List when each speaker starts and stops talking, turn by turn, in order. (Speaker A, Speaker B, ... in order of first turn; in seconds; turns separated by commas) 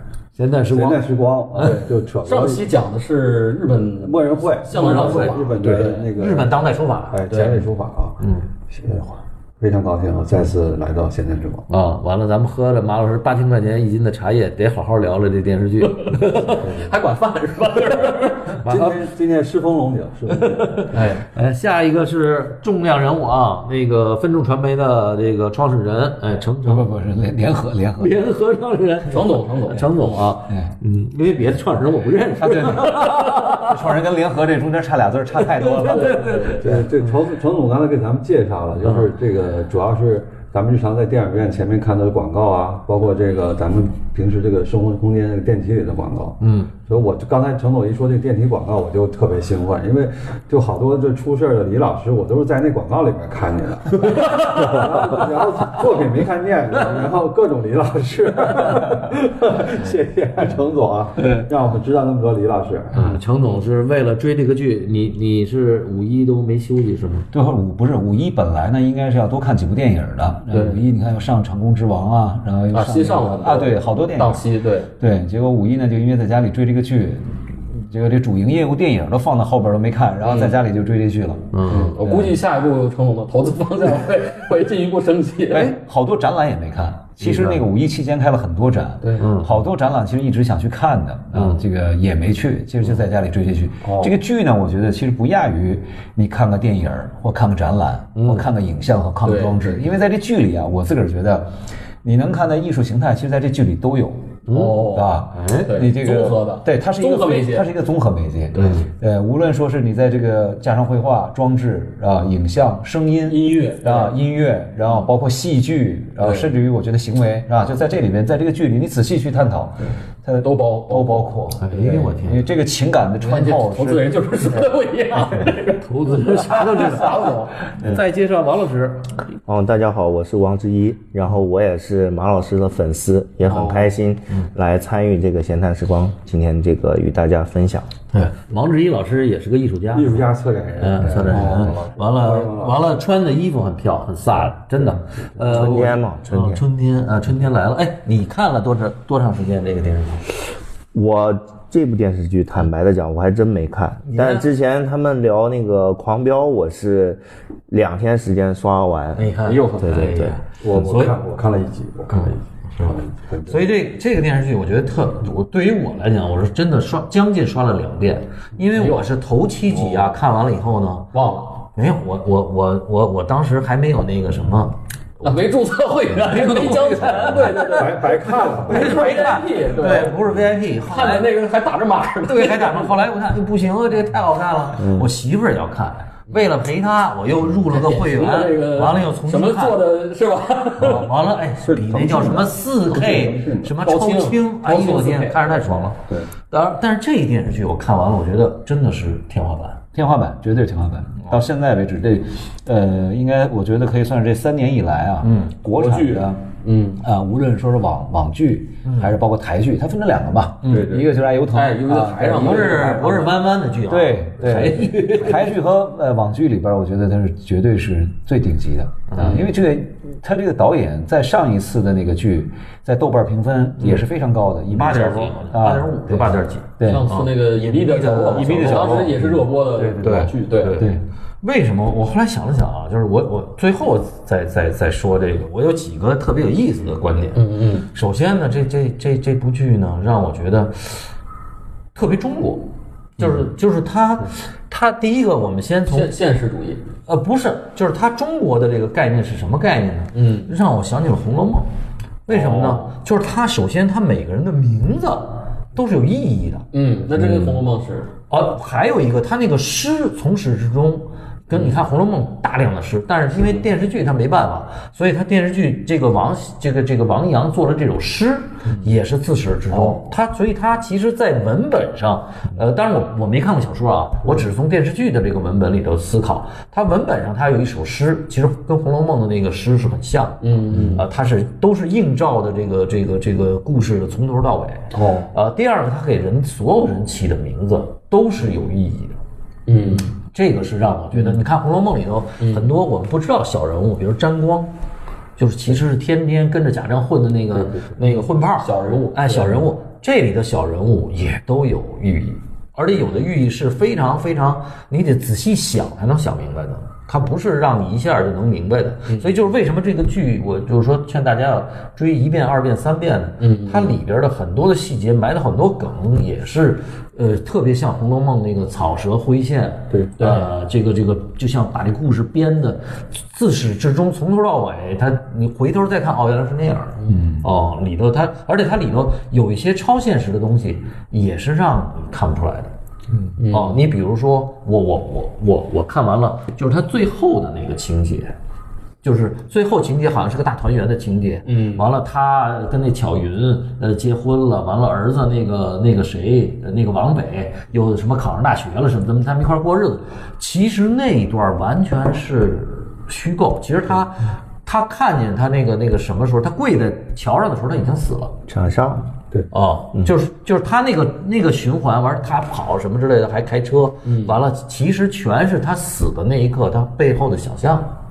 Speaker A: 0.4-1.0, Speaker B: 0.6-2.7, Speaker C: 1.6-6.1, Speaker B: 4.0-6.5, Speaker A: 4.7-7.3, Speaker B: 7.1-8.2, Speaker C: 7.3-7.6, Speaker A: 8.2-8.5, Speaker B: 8.7-11.7, Speaker A: 11.7-16.8, Speaker C: 15.8-18.6, Speaker A: 18.5-19.0, Speaker B: 18.6-20.9, Speaker A: 20.3-26.9, Speaker C: 20.9-21.2, Speaker D: 26.6-28.1, Speaker A: 28.0-33.7, Speaker C: 29.1-29.9, Speaker C: 31.6-33.4, Speaker D: 32.4-36.5, Speaker A: 35.6-36.6, Speaker C: 35.9-36.6, Speaker B: 36.6-63.1, Speaker A: 46.4-46.8, Speaker A: 54.1-54.8, Speaker A: 62.9-67.3, Speaker D: 67.3-74.5, Speaker C: 70.5-70.8, Speaker C: 72.7-74.9, Speaker D: 75.0-82.4, Speaker C: 80.2-80.6, Speaker A: 81.5-82.0, Speaker C: 81.7-85.8, Speaker D: 85.5-101.5, Speaker A: 87.2-87.6, Speaker C: 89.0-89.3, Speaker A: 89.2-89.5, Speaker A: 91.3-91.6, Speaker A: 98.2-98.5, Speaker C: 99.2-99.8, Speaker D: 102.0-124.2, Speaker A: 104.5-105.7, Speaker C: 104.5-107.7, Speaker C: 108.5-108.9, Speaker C: 113.2-114.1, Speaker C: 116.2-116.5, Speaker C: 120.4-122.0, Speaker A: 121.6-122.5, Speaker C: 123.2-127.5, Speaker A: 125.8-129.1, Speaker E: 129.5-137.9, Speaker C: 133.4-133.9, Speaker A: 138.1-150.2, Speaker B: 139.9-142.8, Speaker E: 145.4-146.6, Speaker E: 150.9-160.4, Speaker A: 154.1-154.5, Speaker A: 159.2-161.2, Speaker C: 159.5-160.2, Speaker B: 160.6-162.4, Speaker A: 162.1-171.1, Speaker B: 163.0-163.7, Speaker C: 168.7-169.1, Speaker C: 169.7-170.1, Speaker C: 171.1-171.6, Speaker A: 171.7-175.4, Speaker C: 175.2-180.3, Speaker A: 176.1-177.9, Speaker B: 177.5-179.1, Speaker A: 178.5-181.3, Speaker C: 180.9-183.0, Speaker A: 182.3-189.8, Speaker E: 184.8-185.1, Speaker C: 187.7-191.1, Speaker A: 190.8-199.8, Speaker B: 191.6-193.7, Speaker C: 193.8-195.9, Speaker D: 199.9-206.4, Speaker A: 205.2-205.5, Speaker C: 205.7-207.0, Speaker D: 207.0-212.9, Speaker A: 208.8-209.2, Speaker B: 210.6-211.2, Speaker C: 211.5-213.4, Speaker A: 211.9-215.6, Speaker D: 213.9-227.1, Speaker A: 219.1-219.5, Speaker C: 219.2-219.5, Speaker A: 224.7-229.3, Speaker C: 226.8-230.9, Speaker D: 228.4-229.3, Speaker D: 229.9-231.0, Speaker A: 230.6-230.9, Speaker A: 231.4-241.1, Speaker C: 237.3-237.9, Speaker A: 241.9-246.1, Speaker C: 245.9-246.9, Speaker A: 247.1-251.7, Speaker C: 250.1-250.5, Speaker A: 252.3-257.6, Speaker C: 252.3-252.9, Speaker C: 256.7-258.1, Speaker A: 258.3-289.2, Speaker C: 269.7-270.1, Speaker C: 280.4-281.0, Speaker C: 284.9-285.3, Speaker C: 289.7-290.1, Speaker A: 290.2-294.7, Speaker C: 292.4-292.7, Speaker A: 295.4-332.7, Speaker C: 297.5-299.7, Speaker C: 313.4-313.9, Speaker B: 319.9-320.1, Speaker C: 320.2-320.5, Speaker D: 327.1-327.4, Speaker C: 333.4-333.8, Speaker A: 333.4-338.4, Speaker A: 339.0-358.4, Speaker C: 341.5-341.9, Speaker E: 358.5-359.1, Speaker A: 359.5-367.9, Speaker C: 364.1-364.4